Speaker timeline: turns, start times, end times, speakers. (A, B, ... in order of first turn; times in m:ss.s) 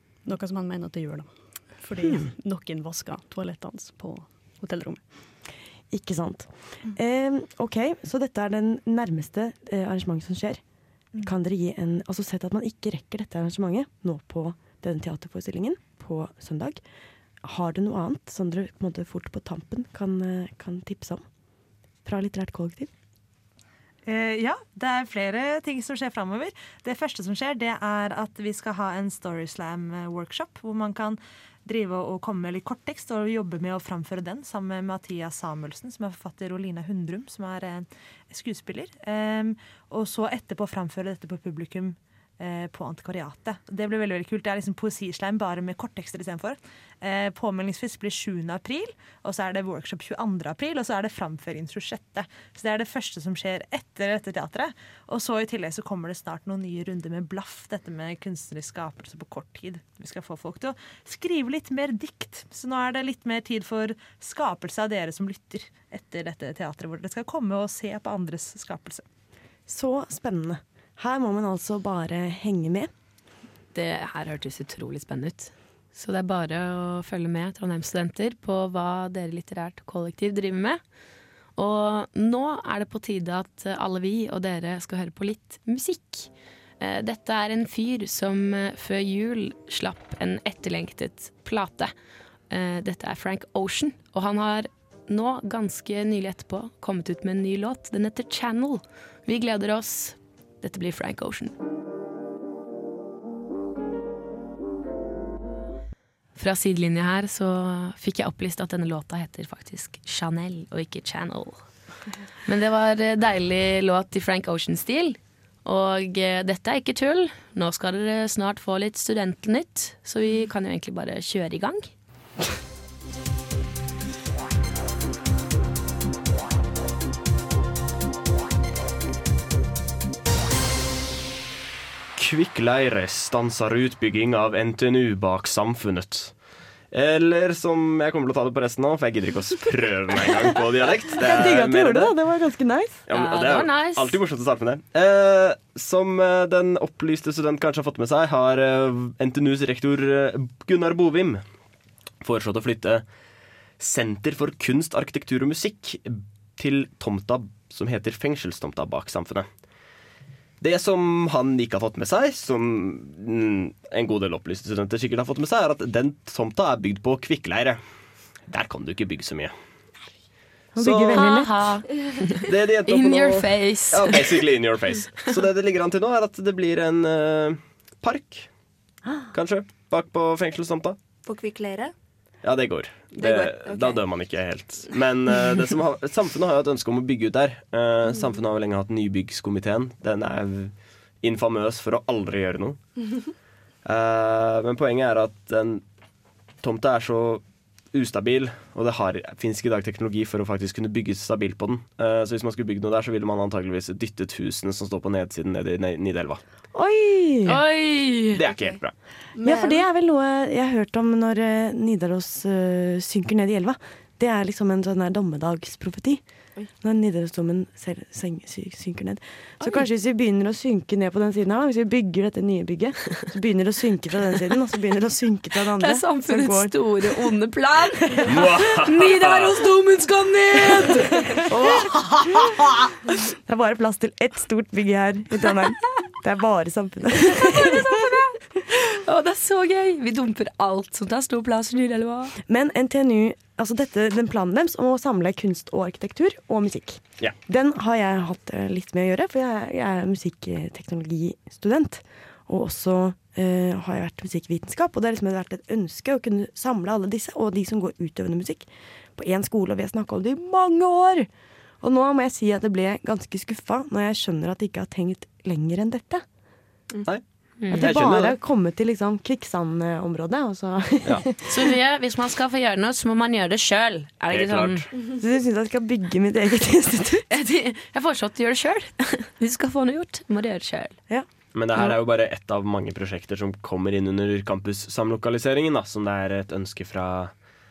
0:00.2-0:05.1 A
0:05.9-0:10.6 B
0:11.2-0:16.8 B
0:17.4-0:21.2 B
0:22.0-0:22.9 B
0:24.1-1:09.0 C
1:09.7-1:12.9 B
1:13.7-1:20.8 D
1:21.6-1:31.9 D
1:32.5-1:41.6 D
1:46.4-1:51.8 D
1:52.4-2:01.9 D
2:12.2-2:22.1 E
2:21.1-2:23.0 B
2:23.1-2:31.4 E
2:23.1-2:24.2 D
2:32.2-2:33.0 E
2:33.8-2:39.5 E
2:40.6-2:47.8 E
2:48.4-2:49.5 E
2:50.7-2:51.7 B
2:50.8-2:51.4 E
2:51.1-2:54.4 D
2:52.4-2:58.6 E
2:59.3-3:01.0 E
3:01.2-3:01.9 F
3:02.4-3:12.8 E
3:03.1-3:04.2 F
3:13.8-3:15.8 E
3:16.6-3:26.4 E
3:26.7-3:27.6 B
3:27.4-3:28.4 D
3:28.3-3:28.9 E
3:29.3-3:29.9 F
3:29.4-3:47.3 B
3:45.8-3:51.5 D
3:48.3-3:49.5 E
3:51.5-3:52.6 B
3:53.3-3:58.2 B
3:57.4-3:58.1 D
3:58.7-4:02.3 D
4:02.4-4:21.3 B
4:21.8-4:26.2 B
4:27.1-4:28.4 E
4:27.6-4:27.9 D
4:27.7-4:31.4 B
4:31.4-4:34.9 D
4:34.3-4:34.9 E
4:35.1-4:37.3 B
4:37.3-4:41.0 D
4:41.5-4:47.4 E